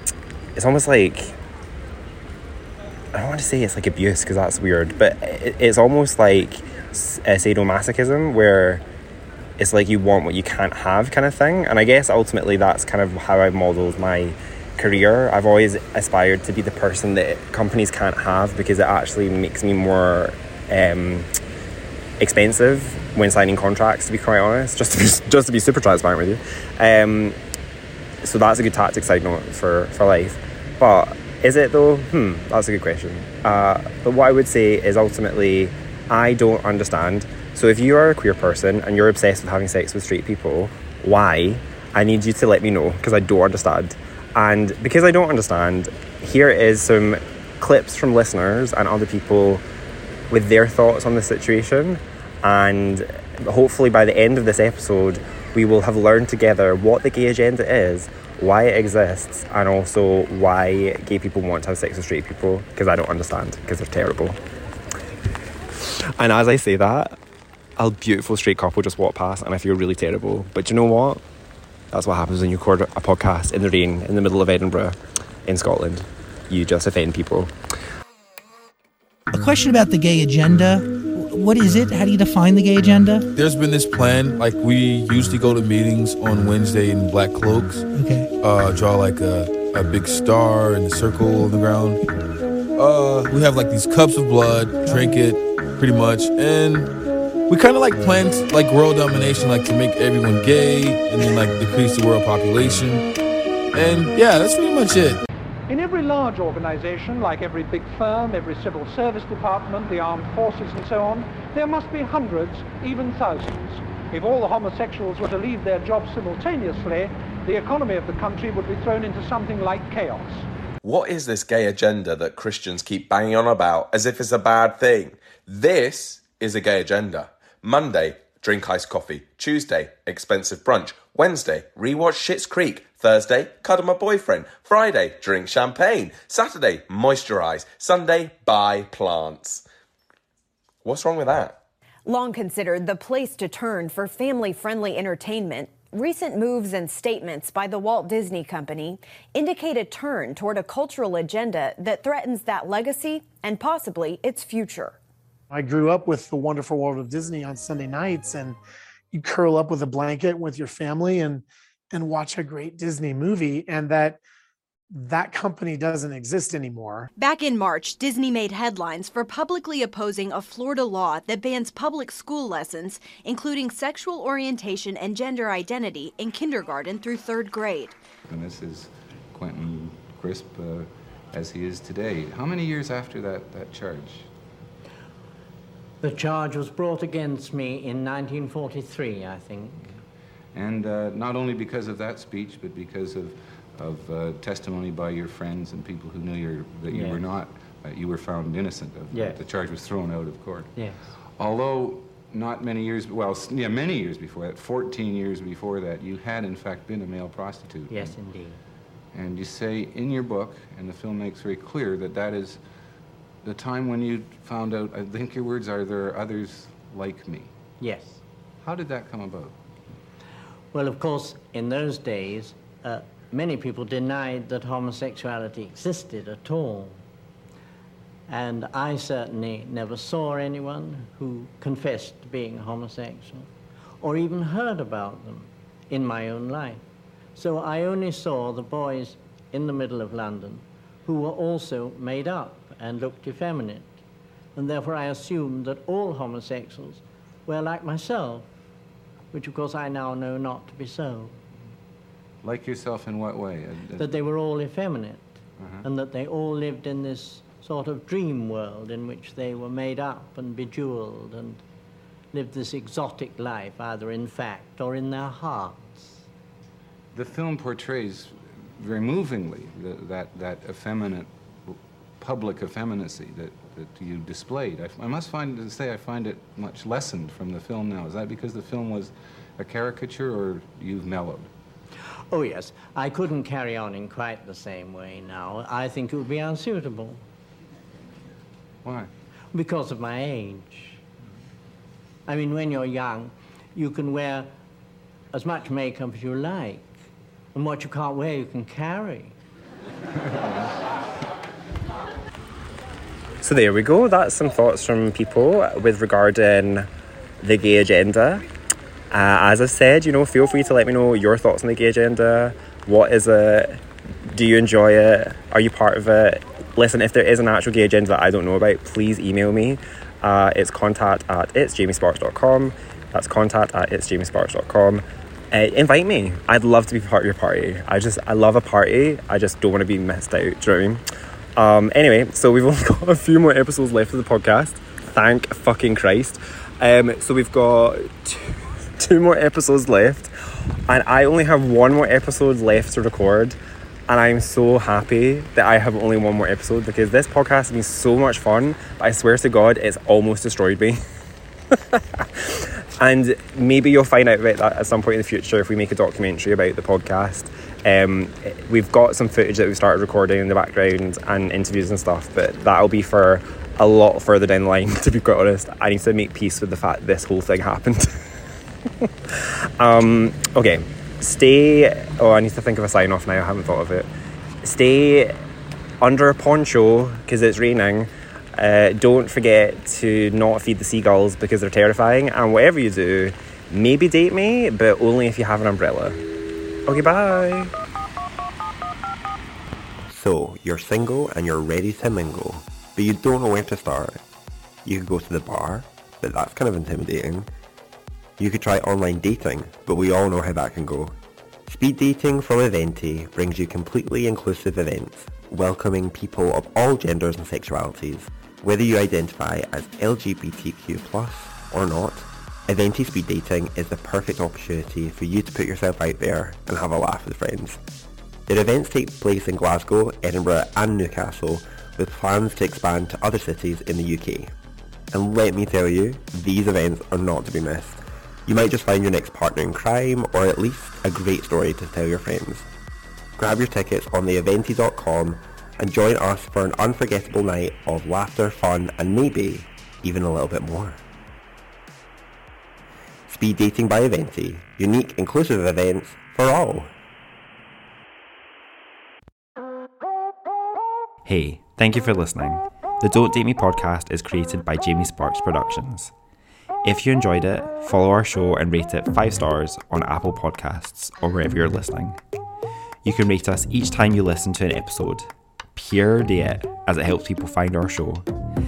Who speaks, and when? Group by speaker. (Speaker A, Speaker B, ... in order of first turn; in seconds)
Speaker A: 0.6-1.3, 3.1-8.8, 9.6-21.3, 22.2-27.4, 28.2-49.6, 50.3-64.4, 65.8-67.2, 67.8-71.2, 71.9-77.5, 303.4-306.9, 307.4-308.4, 309.1-331.0, 331.6-340.3, 340.9-343.6, 344.1-351.0, 351.9-368.1, 369.8-374.1, 374.6-375.4, 376.0-386.2, 386.9-387.7, 451.3-456.1, 456.8-462.2, 463.1-468.2
Speaker B: 79.3-83.3, 87.9-88.3
Speaker C: 83.3-87.9, 88.4-92.0, 92.8-96.9, 97.5-103.1, 103.7-105.2
Speaker D: 105.7-120.5
Speaker E: 120.8-139.6, 140.8-141.6
Speaker F: 142.1-155.0
Speaker G: 155.5-158.6, 159.1-164.2, 165.0-167.1
Speaker H: 167.2-177.9
Speaker I: 178.3-184.3, 190.5-200.7, 201.4-208.2, 209.1-212.6, 213.4-217.5, 218.6-219.6, 252.4-254.1, 255.6-255.8, 267.1-281.5, 288.8-289.1
Speaker J: 186.0-189.9, 196.9-197.2, 199.1-199.4, 200.8-201.0, 207.9-208.6, 217.8-218.2, 220.7-227.0, 228.3-233.5, 234.0-236.8, 237.3-244.0, 244.6-248.5, 249.3-251.4, 253.9-261.6, 262.3-266.2, 282.3-287.2, 289.5-291.0, 292.3-294.5, 295.3-297.0, 297.5-299.4
Speaker K: 390.1-394.2, 394.9-397.5, 398.4-401.1, 401.7-417.8, 418.5-424.5, 425.1-432.7, 433.4-441.0, 443.3-446.9